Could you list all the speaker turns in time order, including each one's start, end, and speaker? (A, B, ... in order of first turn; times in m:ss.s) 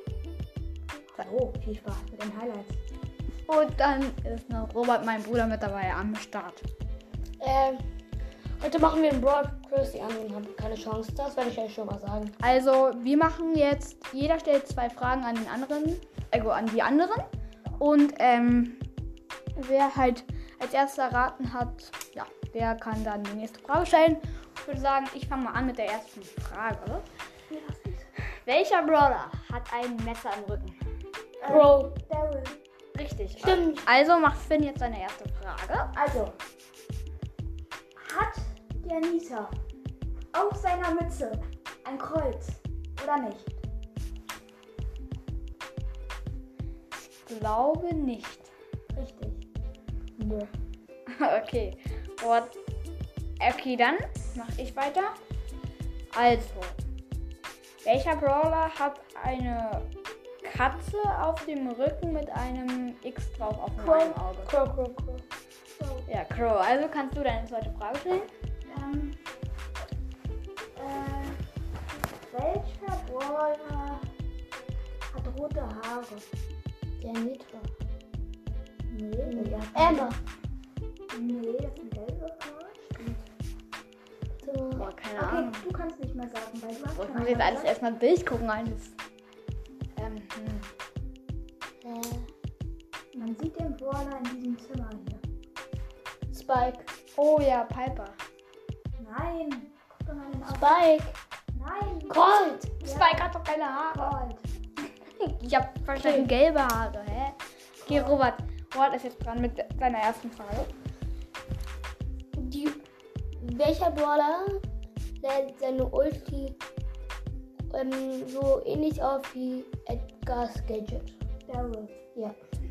0:01.1-0:02.8 A
0:03.5-0:06.6 B
0:07.4-0:07.8 C
0:08.6-0:12.3 C
0:12.4-0:17.3 B
0:17.8-0:18.8 B
0:19.6-0:27.0 B
0:27.5-0:28.1 A
0:28.4-0:30.8 B
0:31.4-0:32.6 A
0:31.4-0:31.9 C
0:32.9-0:35.9 B
0:33.4-0:33.8 C
0:35.9-0:36.4 A
0:38.0-0:39.5 A
0:40.3-0:43.6 A
0:47.2-0:48.5 B
0:48.9-0:49.4 A
0:50.2-0:50.4 C
0:51.1-0:52.5 B
0:53.4-0:55.2 B
0:56.1-0:56.8 B
0:57.8-0:59.8 B
1:00.4-1:04.5 B
1:03.8-1:05.2 C
1:05.8-1:06.1 A
1:06.1-1:08.3 B
1:08.7-1:09.2 A
1:10.7-1:11.4 A
1:12.3-1:14.0 A
1:15.1-1:16.2 A
1:17.0-1:17.7 C
1:18.9-1:20.1 A
1:19.2-1:20.2 C
1:21.1-1:23.2 A
1:24.4-1:24.9 C
1:24.7-1:25.6 B
1:25.2-1:27.7 A
1:27.0-1:28.9 B
1:29.9-1:30.7 B
1:31.8-1:32.3 C
1:33.1-1:35.2 A
1:36.3-1:36.9 C
1:37.2-1:38.2 B
1:39.0-1:40.8 A
1:40.5-1:41.2 C
1:41.5-1:42.2 A
1:42.1-1:42.7 C
1:42.8-1:44.2 B
1:42.8-1:43.3 A
1:43.9-1:44.4 A
1:45.2-1:50.7 B
1:46.0-1:46.3 C
1:47.8-1:48.2 A
1:52.3-1:52.8 C
1:53.4-1:54.6 C
1:55.2-1:56.6 C
1:57.7-2:01.1 C
2:01.5-2:01.9 A